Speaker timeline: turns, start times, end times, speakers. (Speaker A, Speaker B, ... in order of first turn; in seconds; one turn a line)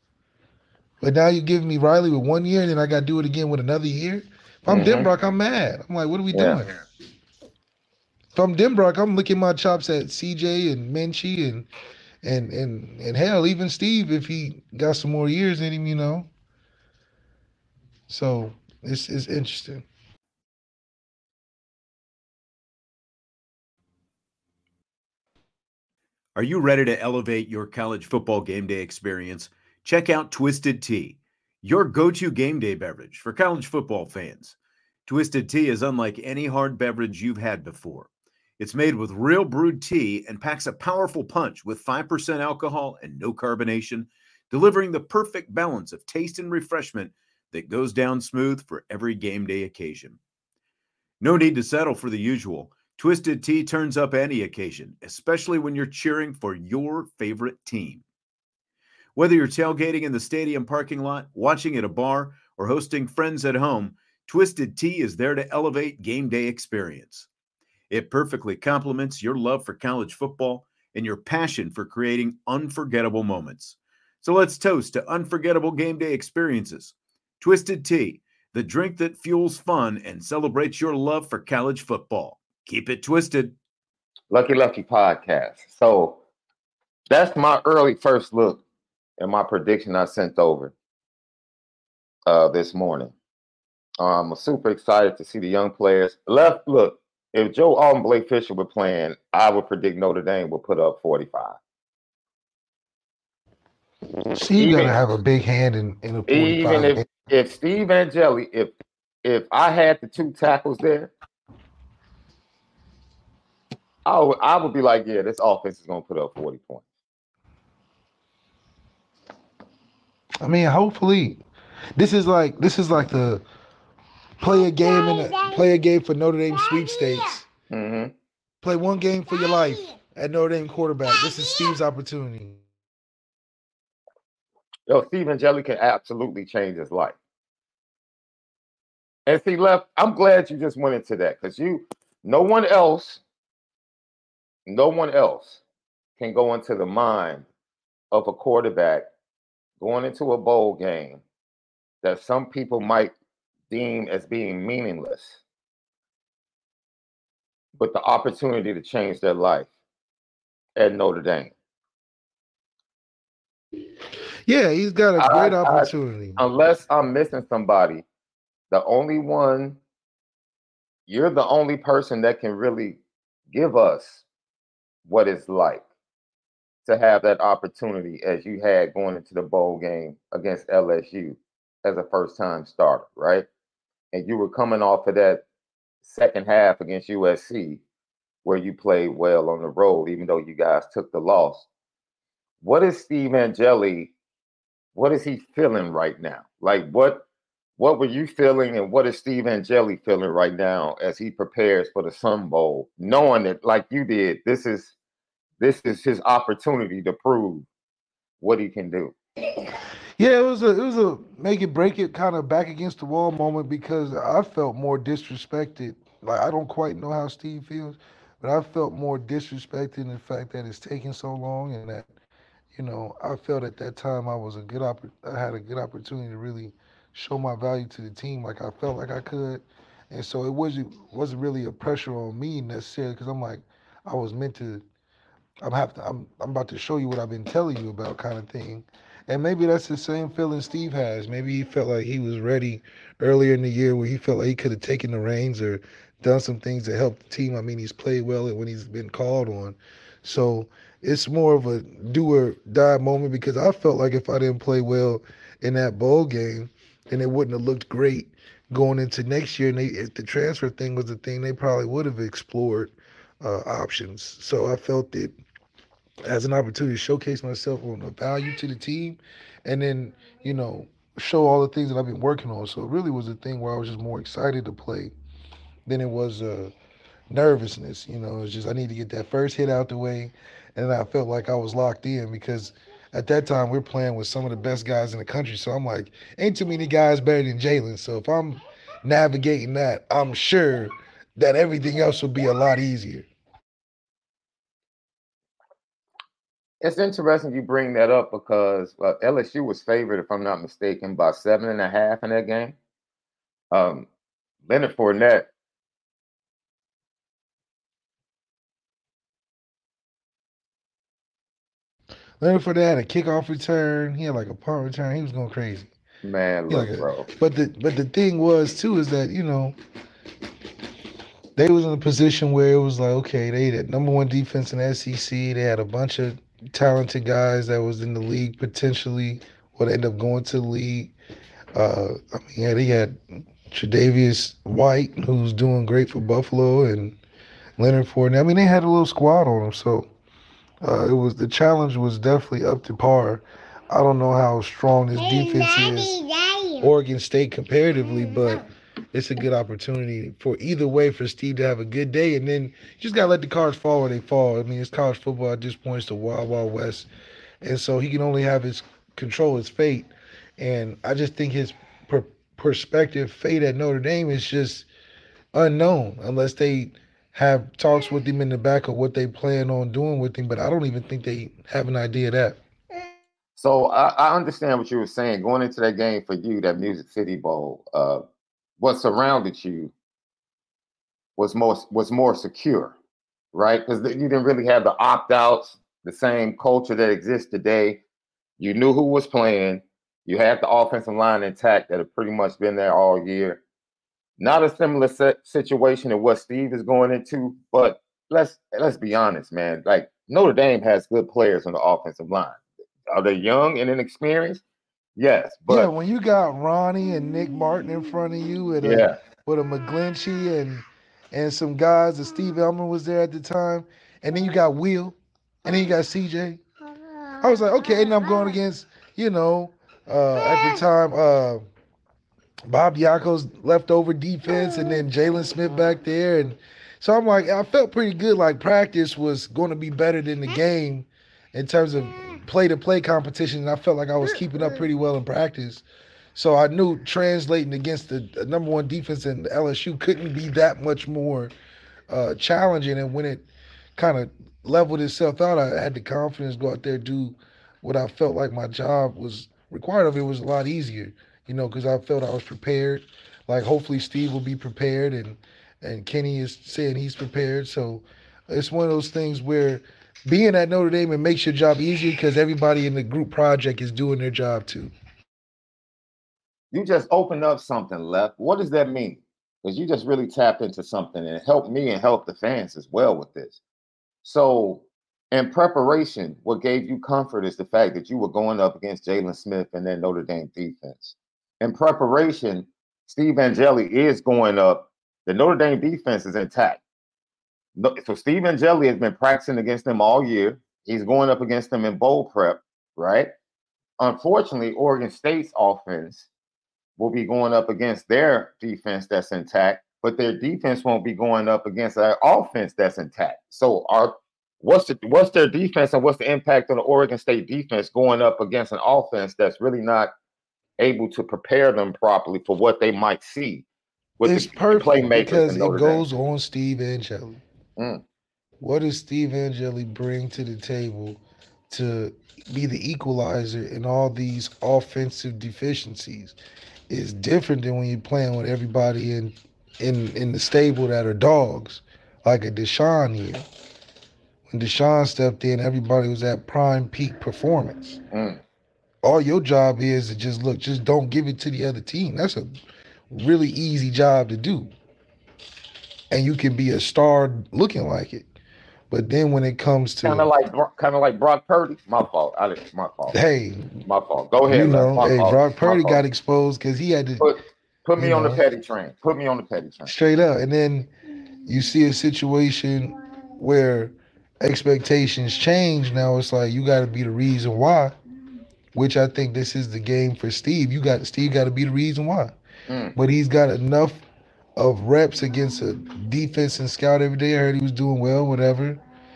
Speaker A: 1.0-6.8
Speaker B: 4.7-5.1
Speaker B: 6.3-6.6
Speaker A: 8.3-11.7
Speaker A: 12.2-16.3
Speaker A: 18.1-19.9
Speaker C: 26.3-50.2
Speaker C: 51.2-58.0
Speaker C: 59.1-67.3
Speaker C: 67.9-83.5
Speaker B: 84.3-86.2
Speaker B: 87.1-88.6
Speaker B: 89.2-90.7
Speaker B: 92.3-93.1
Speaker B: 94.0-101.6
Speaker A: 104.3-107.0
Speaker B: 104.6-105.0
Speaker B: 106.3-108.7
Speaker B: 109.2-111.1
Speaker B: 114.0-116.8
Speaker A: 120.4-121.4
Speaker A: 122.0-123.4
Speaker A: 124.4-127.5
Speaker B: 127.7-128.1
Speaker A: 128.6-132.6
Speaker B: 134.9-137.2
Speaker B: 139.3-143.2
Speaker B: 144.7-145.6
Speaker B: 146.2-147.5
Speaker B: 148.1-149.1
Speaker B: 149.8-151.2
Speaker B: 152.0-153.1
Speaker B: 153.7-155.4
Speaker B: 157.8-159.7
Speaker B: 160.8-161.5
Speaker A: 164.5-166.4
Speaker B: 165.2-168.0
Speaker B: 168.7-169.8
Speaker B: 171.1-173.0
Speaker B: 173.5-174.2
Speaker B: 175.1-175.8
Speaker B: 176.8-183.5
Speaker B: 184.1-185.4
Speaker B: 186.0-187.8
Speaker B: 188.4-191.7
Speaker B: 192.6-194.1
Speaker B: 194.9-197.2
Speaker B: 197.8-204.9
Speaker B: 205.6-207.7
Speaker B: 208.4-209.1
Speaker A: 210.2-222.1
Speaker A: 222.7-234.8
Speaker A: 235.6-265.4
Speaker A: 266.2-275.1
Speaker A: 275.9-276.7
Speaker A: 277.3-293.3
Speaker B: 296.8-302.7
Speaker B: 303.7-304.1
Speaker B: 304.6-305.5
Speaker A: 312.4-315.9
Speaker B: 316.2-317.3
Speaker A: 316.7-319.8
Speaker A: 321.6-331.1
Speaker A: 331.7-337.2
Speaker A: 337.8-340.1
Speaker A: 340.8-357.1
Speaker A: 357.6-364.9
Speaker A: 365.5-372.6
Speaker B: 373.6-378.2
Speaker B: 378.8-379.9
Speaker B: 381.4-382.9
Speaker B: 383.5-388.0
Speaker B: 388.6-393.6
Speaker B: 394.4-404.6
Speaker B: 405.1-405.9
Speaker A: 405.7-416.6
Speaker B: 408.8-409.1
Speaker A: 417.4-421.6
Speaker A: 422.7-441.5
Speaker A: 442.1-464.9
Speaker B: 466.7-473.6
Speaker B: 474.2-486.8
Speaker B: 487.8-493.3
Speaker B: 494.0-496.3
Speaker B: 497.0-510.1
Speaker B: 510.8-513.6
Speaker B: 514.2-516.0
Speaker A: 514.2-517.4
Speaker B: 517.8-518.0
Speaker A: 518.6-526.4
Speaker A: 526.9-533.4
Speaker A: 534.5-538.0
Speaker B: 538.1-538.4
Speaker A: 539.0-542.5
Speaker A: 543.1-544.7
Speaker A: 546.1-548.3
Speaker A: 548.9-550.3
Speaker B: 550.0-553.2
Speaker A: 553.1-553.8
Speaker B: 553.8-556.0
Speaker A: 554.5-557.3
Speaker B: 557.2-559.9
Speaker A: 558.0-558.4
Speaker A: 559.9-560.9
Speaker A: 561.5-567.9
Speaker A: 568.7-572.3
Speaker B: 572.7-572.9
Speaker A: 572.9-574.0
Speaker A: 574.6-578.8